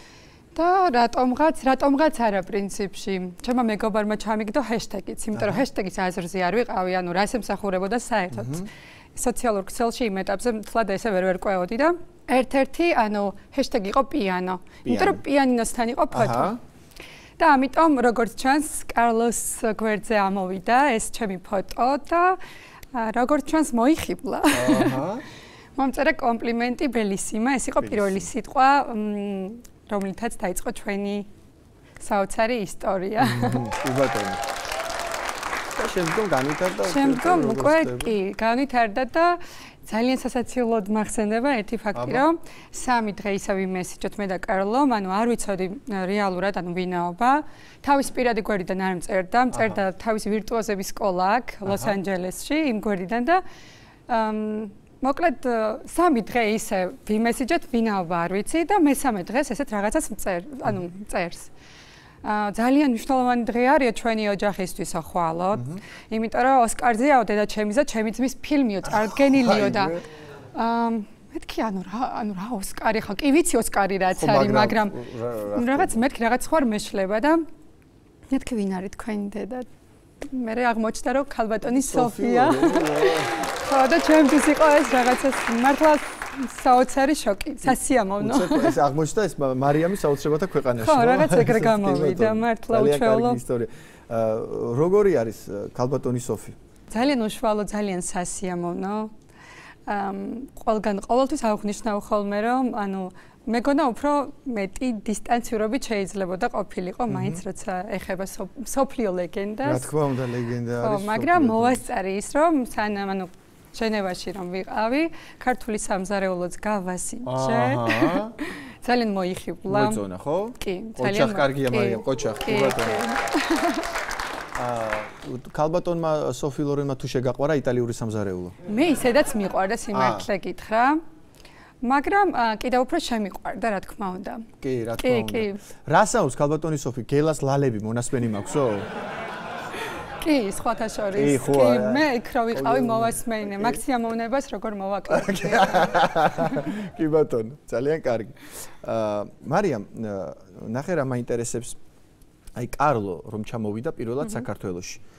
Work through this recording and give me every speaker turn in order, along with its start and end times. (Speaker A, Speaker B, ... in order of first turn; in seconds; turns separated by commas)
Speaker A: 0.5-16.6, Speaker B: 5.3-5.6, Speaker B: 8.3-8.7, Speaker B: 14.8-15.2, Speaker B: 16.1-16.6, Speaker A: 17.4-22.4, Speaker A: 22.9-25.0, Speaker B: 24.5-25.2, Speaker A: 25.8-31.3, Speaker B: 27.8-28.3, Speaker A: 32.0-33.7, Speaker B: 33.2-34.4, Speaker B: 35.8-38.1, Speaker A: 36.9-53.4, Speaker B: 41.9-42.2, Speaker B: 49.5-49.8, Speaker B: 51.6-51.9, Speaker A: 54.1-61.5, Speaker A: 62.2-70.0, Speaker B: 69.3-70.0, Speaker A: 70.5-75.0, Speaker B: 74.1-76.0, Speaker A: 75.5-77.5, Speaker A: 78.3-79.7, Speaker A: 80.2-88.8, Speaker B: 81.7-83.3, Speaker B: 87.6-96.5, Speaker A: 90.8-93.4, Speaker A: 96.9-99.1, Speaker A: 99.9-109.9, Speaker B: 107.1-107.4, Speaker B: 109.6-111.8, Speaker A: 110.8-120.0, Speaker B: 117.2-118.3, Speaker B: 119.7-123.0, Speaker A: 120.6-123.8, Speaker B: 124.5-128.5, Speaker A: 128.7-131.0, Speaker B: 129.9-130.3, Speaker A: 131.8-134.4, Speaker B: 134.6-138.9, Speaker A: 135.0-135.6, Speaker A: 140.2-146.0, Speaker B: 141.1-143.8, Speaker B: 145.1-151.8, Speaker B: 152.6-155.0